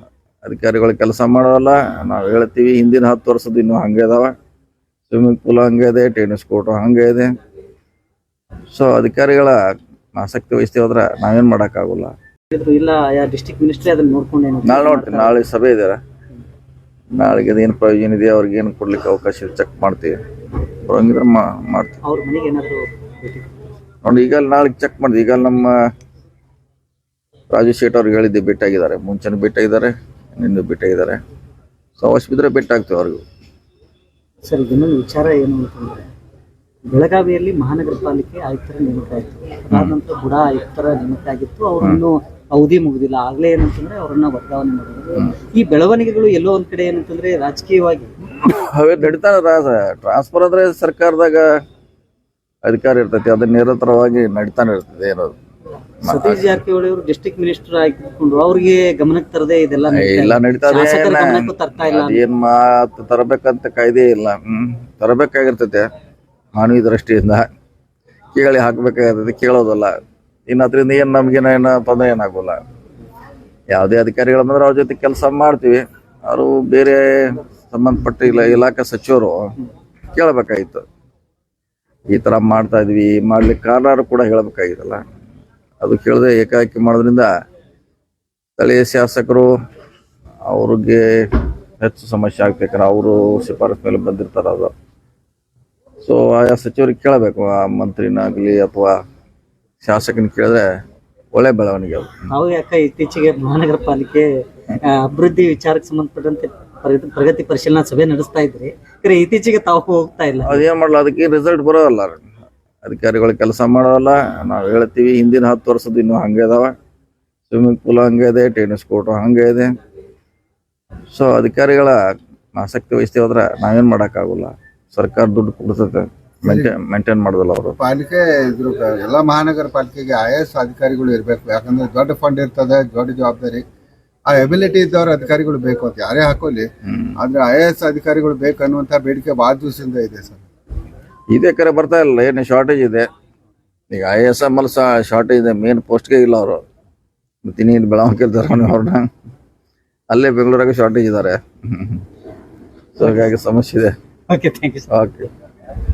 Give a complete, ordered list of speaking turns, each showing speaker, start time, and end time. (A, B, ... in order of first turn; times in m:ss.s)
0:00.4-0:04.3 A
0:05.1-0:07.3 A
0:08.7-0:09.6 A
0:10.1-0:12.1 A
0:12.5-0:15.4 B
0:14.6-0:16.0 A
0:17.2-0:20.2 A
0:20.8-0:22.0 A
0:22.0-0:23.5 B
0:24.0-0:25.8 A
0:27.5-0:31.2 A
0:32.0-0:33.2 A
0:34.4-0:36.1 B
0:36.8-0:48.2 B
0:39.7-0:40.0 A
0:48.5-0:51.5 A
0:52.6-0:55.4 A
0:56.0-0:56.6 A
0:56.0-1:02.2 B
0:59.9-1:05.9 A
1:06.6-1:07.5 A
1:08.4-1:10.0 A
1:10.5-1:12.6 A
1:13.7-1:19.5 A
1:20.1-1:20.8 A
1:22.1-1:25.0 A
1:25.8-1:27.3 A
1:28.6-1:29.5 A
1:30.5-1:34.7 A
1:36.0-1:39.0 A
1:39.8-1:40.7 A
1:41.3-1:42.2 A
1:42.3-1:50.6 B
1:50.4-1:52.2 A
1:52.8-1:56.7 A
1:57.5-1:59.7 A
2:01.1-2:02.0 A
2:02.5-2:07.8 A
2:06.4-2:06.7 C
2:07.8-2:13.6 C
2:14.3-2:20.4 C
2:21.3-2:23.1 A
2:23.9-2:26.6 A
2:27.4-2:29.1 A
2:30.1-2:32.0 A
2:33.0-2:34.0 A
2:34.3-2:34.9 B
2:34.9-2:35.3 A